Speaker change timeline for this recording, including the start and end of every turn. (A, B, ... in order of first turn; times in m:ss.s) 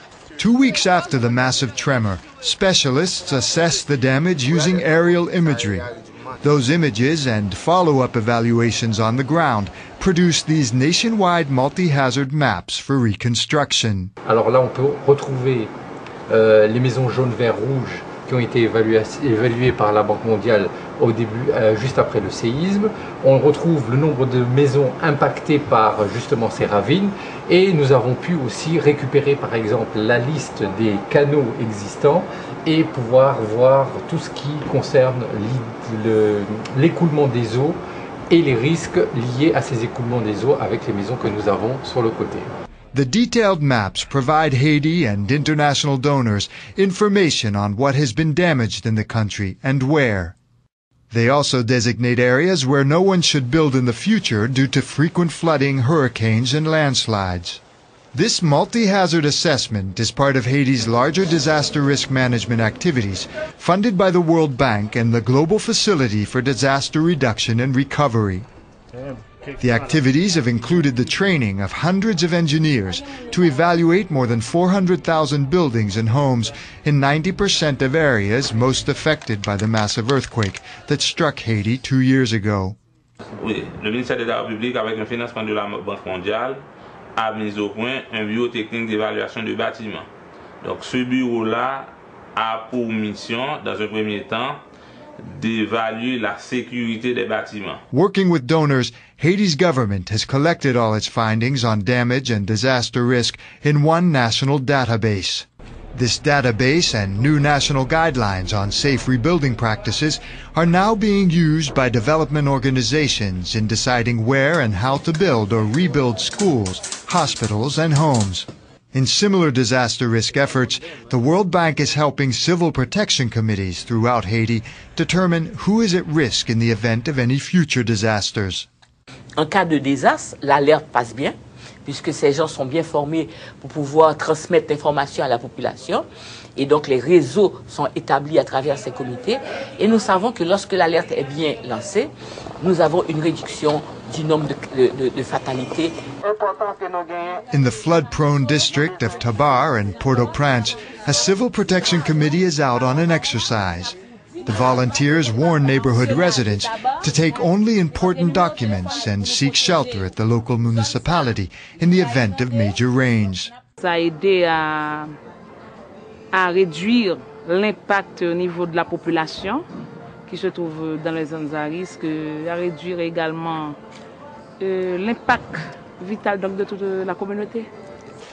0:00.4-0:05.9 A
0:06.4-0:14.1 A
0:14.2-0:15.7 B
0:16.3-0:37.8 B
0:38.3-0:42.5 B
0:42.9-0:50.3 A
0:51.1-0:57.6 A
0:58.1-1:08.4 A
1:09.6-1:22.8 A
1:23.4-1:26.6 C
1:27.2-1:30.1 C
1:30.6-1:34.6 C
1:35.2-1:37.8 C
1:37.9-2:08.7 A
2:09.4-2:26.0 D
2:27.5-2:43.5 A
2:43.8-2:45.1 E
2:46.3-2:49.6 E
2:50.3-2:53.8 E
2:54.6-2:57.7 E